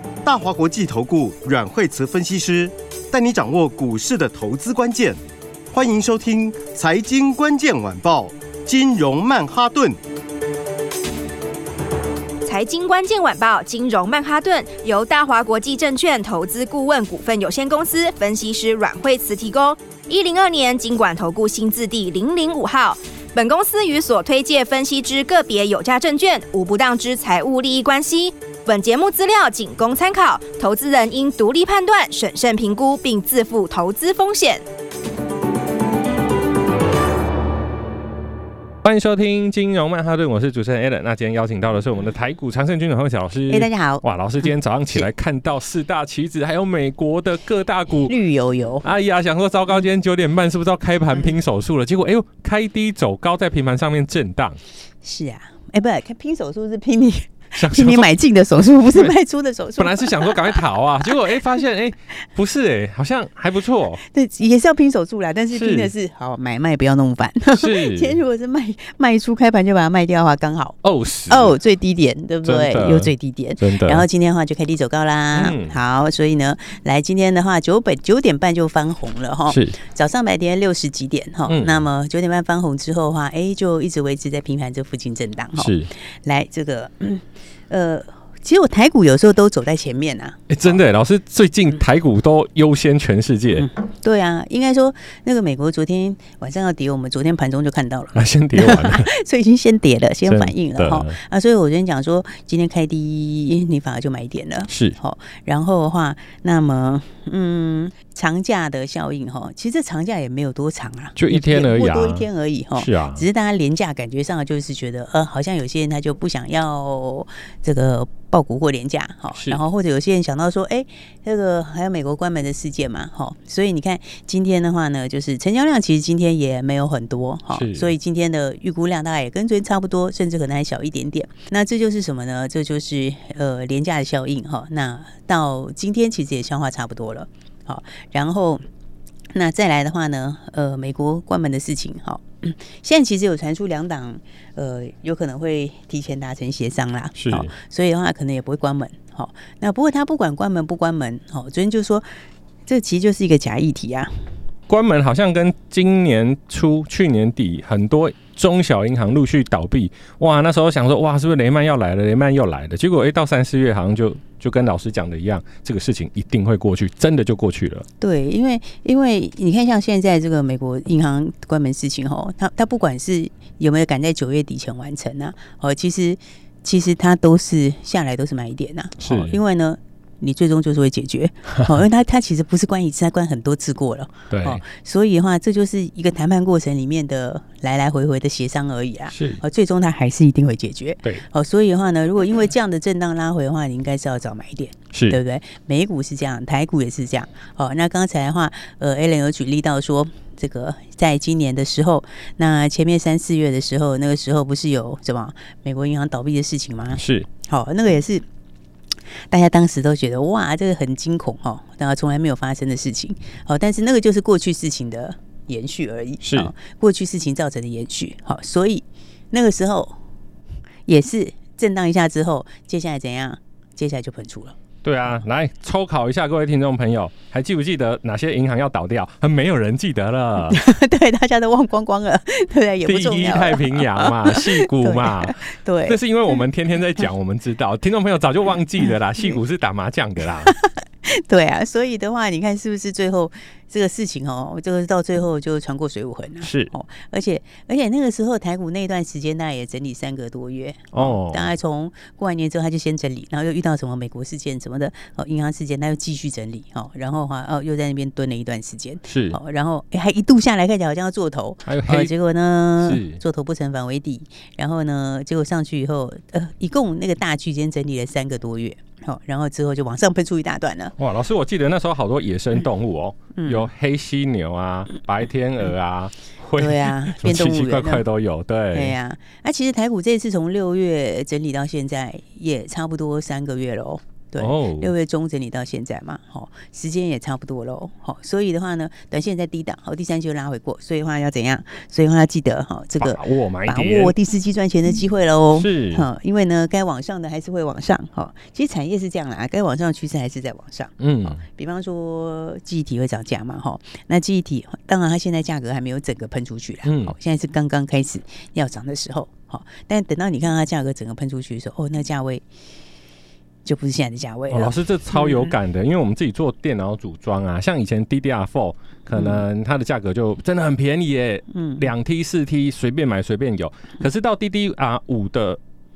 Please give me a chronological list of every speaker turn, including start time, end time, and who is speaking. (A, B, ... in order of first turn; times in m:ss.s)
0:00.2-0:05.2 A
0:05.7-0:10.0 A
0:12.4-0:34.6 B
0:38.8-0:48.1 C
0:43.5-0:44.0 D
0:48.0-0:48.9 D
0:48.8-0:54.6 C
0:55.0-1:00.6 D
0:57.5-0:58.1 C
0:59.8-1:04.0 C
1:04.0-1:10.8 D
1:05.5-1:05.9 C
1:07.5-1:08.2 C
1:10.8-1:11.6 C
1:11.3-1:30.8 D
1:12.4-1:14.0 C
1:15.3-1:15.8 C
1:19.5-1:19.8 C
1:21.5-1:21.8 C
1:25.6-1:25.9 C
1:30.5-1:33.7 C
1:33.5-2:18.6 D
1:38.1-1:39.1 C
1:40.2-1:41.2 C
1:44.7-1:45.0 C
1:51.2-1:53.2 C
1:59.3-1:59.6 C
2:07.5-2:07.9 C
2:19.3-2:32.0 D
2:27.2-2:27.5 C
2:32.7-2:34.3 D
2:34.7-2:47.8 C
2:48.0-3:28.2 D
2:59.0-2:59.4 C
3:04.3-3:04.6 C
3:09.1-3:09.4 C
3:14.9-3:15.2 C
3:26.9-3:27.3 C
3:29.3-3:40.0 D
3:36.2-3:36.5 C
3:40.8-3:44.6 D
3:44.8-3:50.6 C
3:50.5-3:56.0 D
3:52.8-4:00.5 C
4:00.5-4:31.0 D
4:06.4-4:06.7 C
4:10.9-4:11.5 C
4:19.1-4:19.4 C
4:21.6-4:22.1 C
4:22.8-4:23.2 C
4:31.0-4:39.0 C
4:33.3-4:33.7 D
4:36.6-4:38.0 D
4:38.7-5:12.4 D
4:44.4-4:44.9 C
4:53.0-4:54.2 C
4:55.5-4:56.0 C
5:01.0-5:01.4 C
5:06.8-5:07.1 C
5:13.6-5:15.5 D
5:14.5-5:25.6 C
5:19.1-5:19.4 D
5:21.5-5:21.9 D